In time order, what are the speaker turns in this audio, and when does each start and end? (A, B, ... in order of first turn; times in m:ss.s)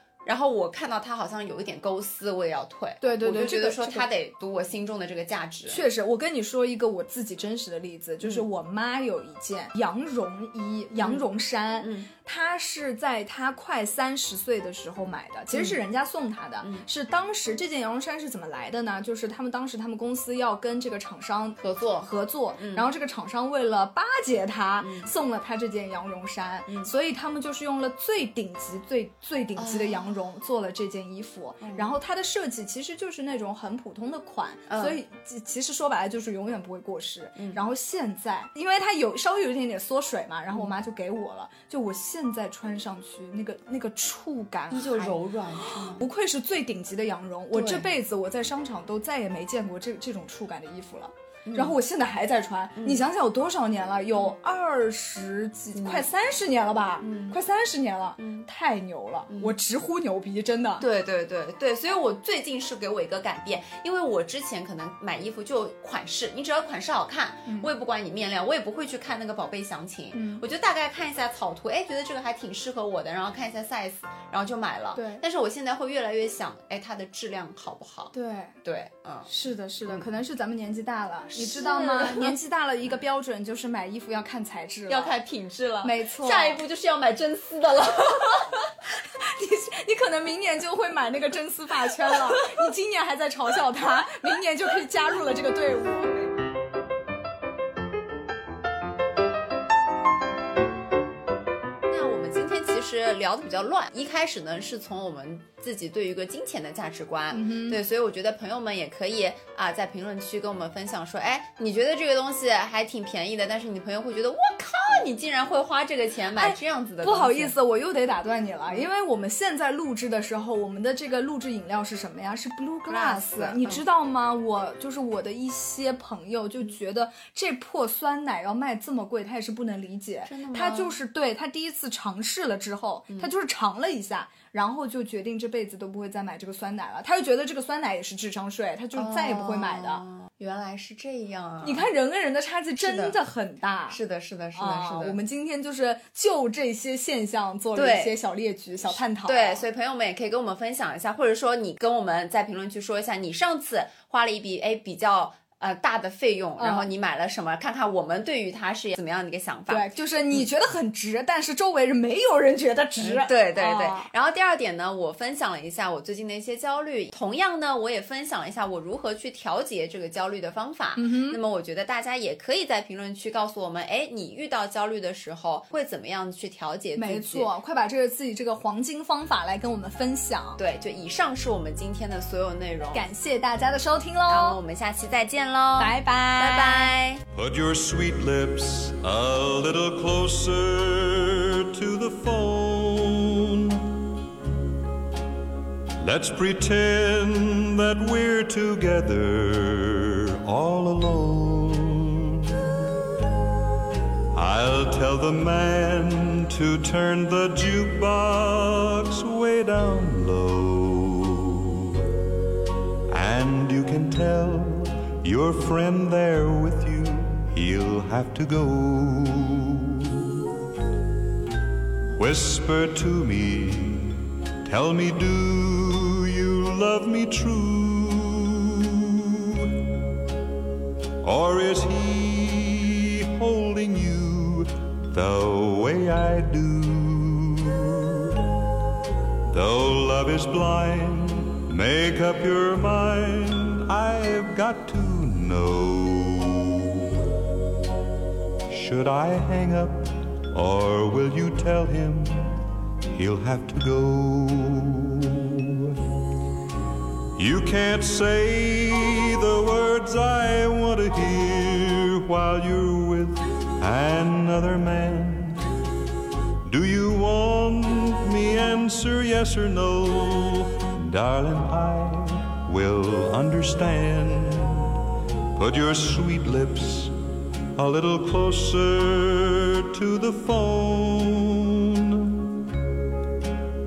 0:00.2-0:05.8 A
0:03.0-0:04.1 B
0:05.7-1:00.9 B
0:11.0-0:11.2 A
0:11.8-0:12.1 A
0:15.5-0:15.8 A
0:21.6-0:22.9 A
0:24.8-0:25.1 A
0:26.7-0:26.9 A
0:29.6-0:30.1 A
0:31.6-0:31.9 A
0:34.7-0:35.0 A
0:37.4-0:37.6 A
0:44.7-0:46.1 A
0:47.5-0:47.9 A
0:51.5-0:51.8 A
0:52.8-0:53.0 A
0:55.8-0:56.1 A
0:57.0-0:57.4 A
0:58.2-0:58.5 A
0:59.3-0:59.6 A
1:00.8-1:19.3 A
1:10.1-1:10.4 B
1:15.0-1:15.2 B
1:18.1-1:18.6 B
1:19.3-1:25.2 B
1:21.4-1:22.4 A
1:24.9-1:28.7 A
1:25.8-1:26.6 B
1:29.2-1:36.3 B
1:41.9-1:57.6 A
1:47.3-1:47.8 B
1:56.4-2:20.0 B
2:02.9-2:03.8 A
2:10.2-2:11.0 A
2:19.0-2:21.9 A
2:21.6-2:24.0 B
2:22.8-2:23.2 A
2:23.9-2:25.2 A
2:24.6-2:29.6 B
2:27.8-2:28.2 A
2:28.9-2:40.4 A
2:36.6-2:36.9 B
2:39.7-2:44.1 B
2:43.0-2:57.5 A
2:51.0-2:51.4 B
2:57.0-3:00.6 B
3:00.6-3:03.1 A
3:02.9-3:04.6 B
3:04.3-3:07.2 A
3:05.8-3:07.0 B
3:07.3-3:14.0 C
3:16.0-3:22.9 C
3:24.3-3:32.1 C
3:33.1-3:40.6 C
3:42.1-3:50.0 C
3:51.2-3:58.5 C
3:59.5-4:07.3 C
4:08.7-4:16.0 C
4:17.4-4:25.6 C
4:26.6-4:35.0 C
4:35.6-4:37.1 C
4:37.8-4:42.7 C